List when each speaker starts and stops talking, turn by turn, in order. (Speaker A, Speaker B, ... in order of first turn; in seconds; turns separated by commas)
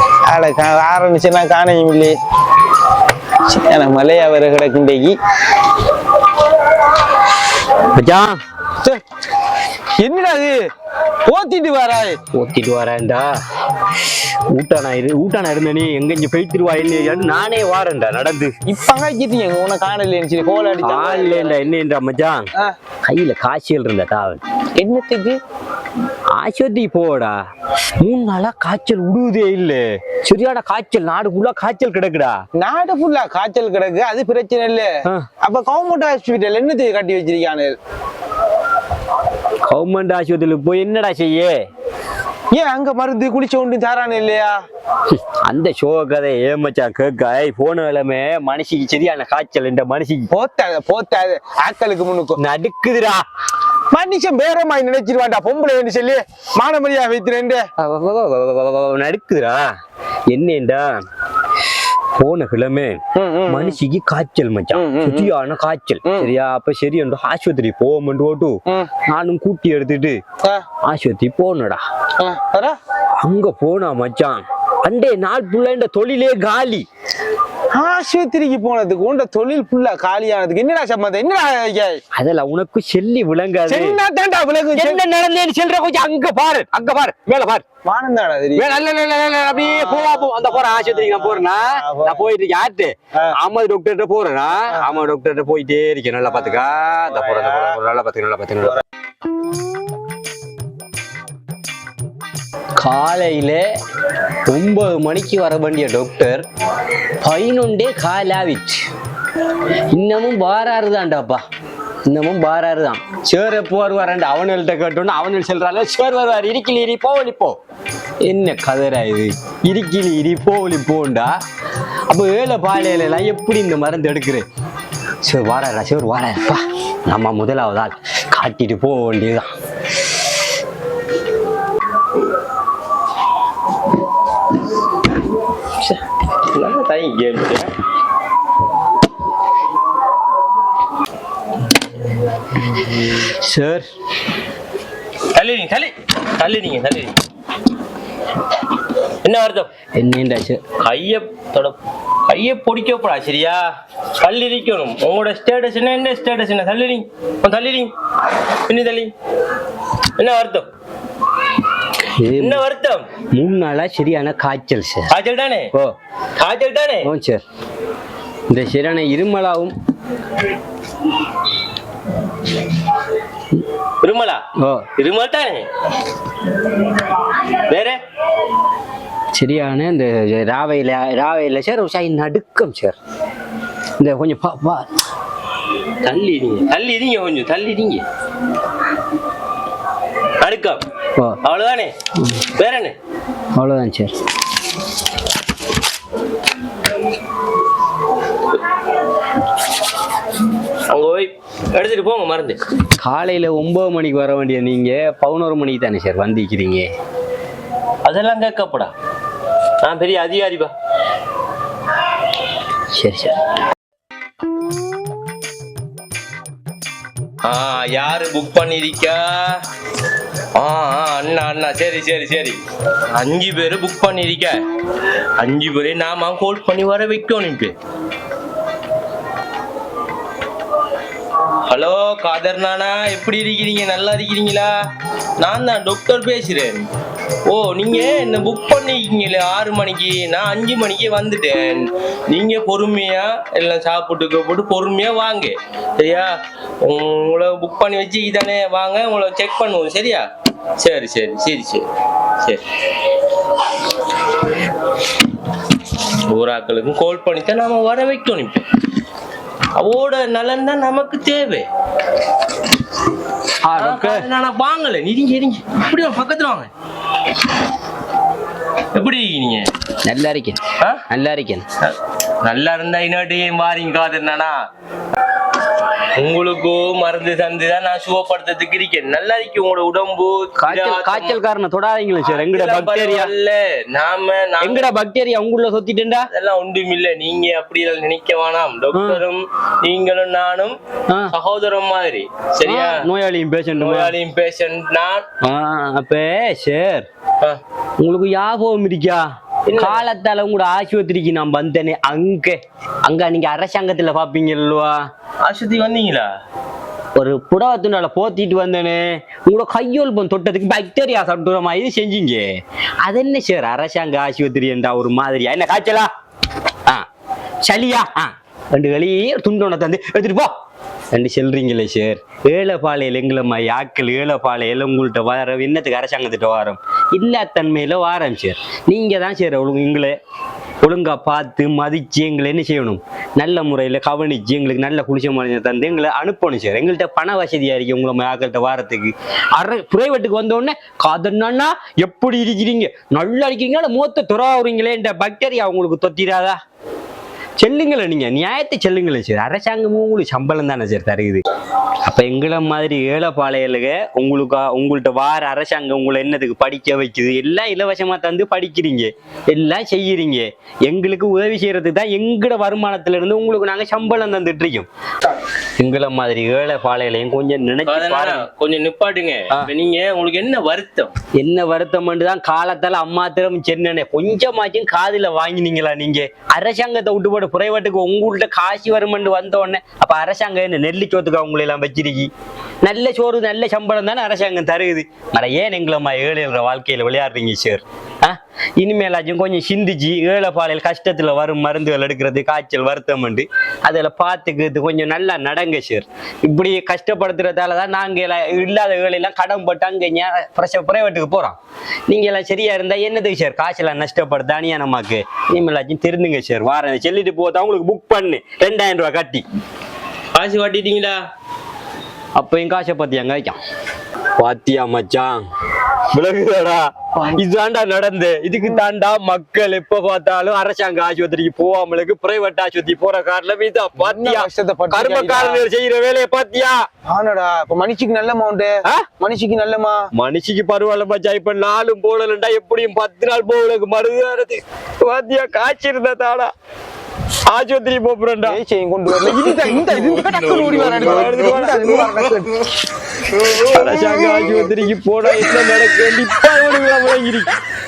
Speaker A: 0.3-2.2, Speaker A: 3.5-5.2, Speaker B: 7.9-8.4, Speaker A: 10.0-10.6, Speaker A: 11.2-12.2, Speaker B: 12.3-13.3, Speaker B: 14.0-18.6, Speaker A: 18.7-21.6, Speaker B: 20.8-22.5, Speaker B: 23.1-24.4, Speaker A: 24.8-25.4, Speaker B: 26.3-27.4, Speaker B: 28.0-32.4, Speaker A: 32.5-37.8, Speaker B: 39.7-41.7, Speaker A: 42.5-44.6, Speaker B: 45.1-50.3, Speaker A: 50.3-52.4, Speaker B: 52.4-53.2, Speaker A: 53.9-57.6, Speaker B: 57.8-59.7, Speaker B: 60.3-61.0, Speaker B: 62.1-70.2, Speaker A: 63.1-63.8, Speaker A: 64.7-65.3, Speaker A: 66.0-66.3, Speaker B: 70.9-71.8, Speaker A: 72.2-72.8, Speaker B: 73.2-76.9, Speaker A: 77.7-82.0, Speaker B: 82.2-84.0, Speaker A: 83.7-85.0, Speaker B: 84.8-87.6, Speaker A: 87.8-88.7, Speaker B: 88.6-98.8, Speaker A: 89.7-92.3, Speaker A: 97.2-97.7, Speaker B: 102.8-103.7, Speaker B: 104.5-106.5, Speaker B: 107.2-108.9, Speaker B: 109.9-111.4, Speaker B: 112.1-117.6, Speaker B: 118.2-121.4, Speaker B: 122.1-124.5, Speaker B: 125.2-129.5, Speaker C: 136.5-137.8, Speaker B: 142.7-143.9, Speaker C: 145.3-147.2, Speaker C: 149.2-149.7, Speaker B: 149.9-150.6, Speaker C: 150.8-151.8, Speaker C: 152.3-153.6, Speaker C: 154.2-159.1, Speaker C: 160.2-160.7, Speaker B: 162.0-162.6, Speaker C: 162.4-163.1, Speaker B: 163.3-165.1, Speaker C: 165.1-165.7, Speaker C: 166.4-167.1, Speaker B: 167.0-167.4, Speaker B: 168.5-169.7, Speaker C: 174.0-174.4, Speaker B: 174.6-174.9, Speaker C: 174.9-175.7, Speaker C: 177.3-178.0, Speaker B: 179.3-183.0, Speaker B: 184.0-184.9, Speaker C: 186.0-188.1, Speaker C: 190.4-190.8, Speaker C: 191.4-193.0, Speaker B: 193.5-194.1, Speaker C: 200.9-202.6, Speaker B: 202.9-206.9, Speaker C: 208.1-208.9, Speaker C: 209.8-210.7, Speaker B: 212.9-213.4, Speaker C: 217.4-219.6, Speaker C: 220.6-227.8, Speaker C: 231.7-234.7, Speaker C: 235.4-236.9, Speaker C: 237.5-250.3, Speaker C: 250.8-251.8, Speaker C: 256.0-258.7, Speaker C: 259.8-261.7, Speaker B: 263.6-264.3, Speaker C: 263.8-266.7, Speaker C: 268.9-269.7, Speaker B: 270.0-271.7, Speaker C: 270.8-271.1, Speaker C: 271.8-274.6, Speaker C: 276.2-281.4, Speaker B: 280.6-283.3, Speaker C: 282.2-284.9, Speaker B: 284.6-286.3, Speaker C: 286.3-290.8, Speaker B: 288.9-289.2, Speaker C: 291.3-293.1, Speaker B: 292.6-294.1, Speaker C: 293.8-295.3, Speaker B: 295.4-297.1, Speaker B: 298.0-305.1, Speaker C: 299.7-300.1, Speaker C: 305.4-306.3, Speaker B: 307.1-316.1, Speaker B: 317.6-320.5, Speaker B: 321.1-330.2, Speaker B: 330.8-346.6, Speaker B: 347.6-351.4, Speaker B: 352.0-364.9, Speaker B: 365.8-368.5, Speaker C: 367.9-371.1, Speaker B: 371.4-382.3, Speaker B: 382.8-401.6, Speaker B: 402.1-409.4, Speaker C: 410.4-411.2, Speaker B: 412.4-413.6, Speaker B: 414.4-415.4, Speaker B: 416.1-426.9, Speaker A: 417.2-417.4, Speaker A: 424.0-425.6, Speaker A: 427.1-430.1, Speaker B: 430.1-436.5, Speaker B: 437.5-438.6, Speaker A: 438.4-442.6, Speaker B: 440.4-442.0, Speaker B: 443.5-447.6